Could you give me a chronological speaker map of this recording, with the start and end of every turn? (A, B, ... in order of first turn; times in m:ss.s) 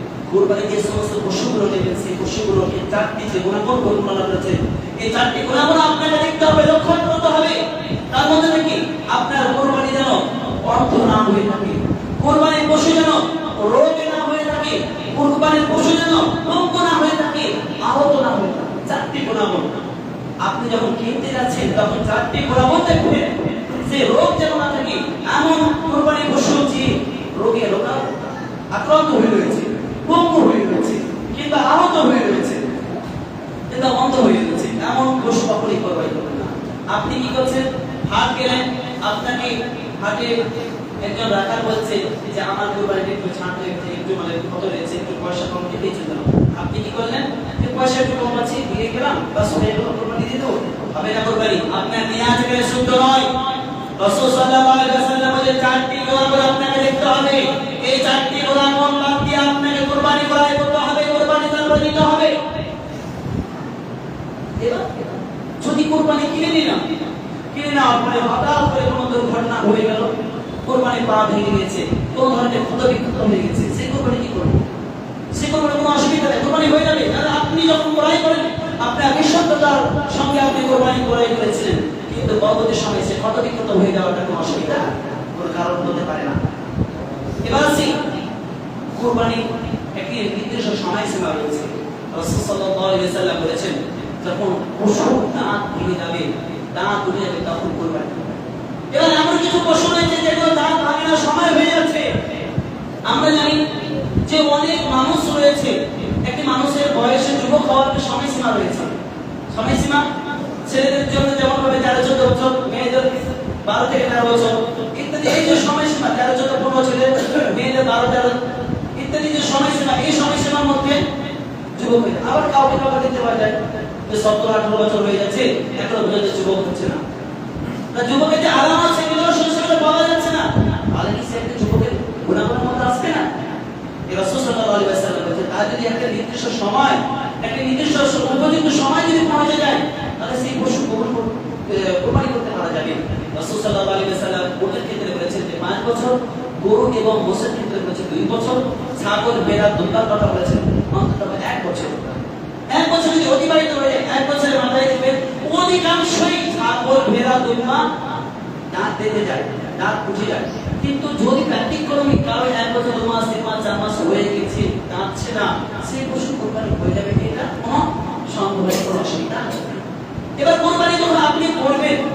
0:00.3-0:19.7 A
0:20.4-0:28.1 A
0:28.7-0:32.6 A
0:33.7-0:40.4 A
0:41.0-0:53.3 A
0:54.0-1:02.4 A
1:04.6-1:06.8 A
1:07.5-1:10.1 A
1:10.7-1:14.6 A
1:15.3-1:26.4 A
1:27.4-1:28.0 A
1:28.9-1:38.4 A
1:38.9-1:42.1 A
1:43.1-1:43.6 A
1:44.3-1:49.0 A
1:49.5-1:50.0 A
1:50.7-1:58.4 A
1:59.0-2:01.0 A
2:01.8-2:07.0 A
2:07.9-2:13.3 A
2:14.1-2:37.9 A
2:38.7-2:49.7 A
2:50.4-2:52.0 A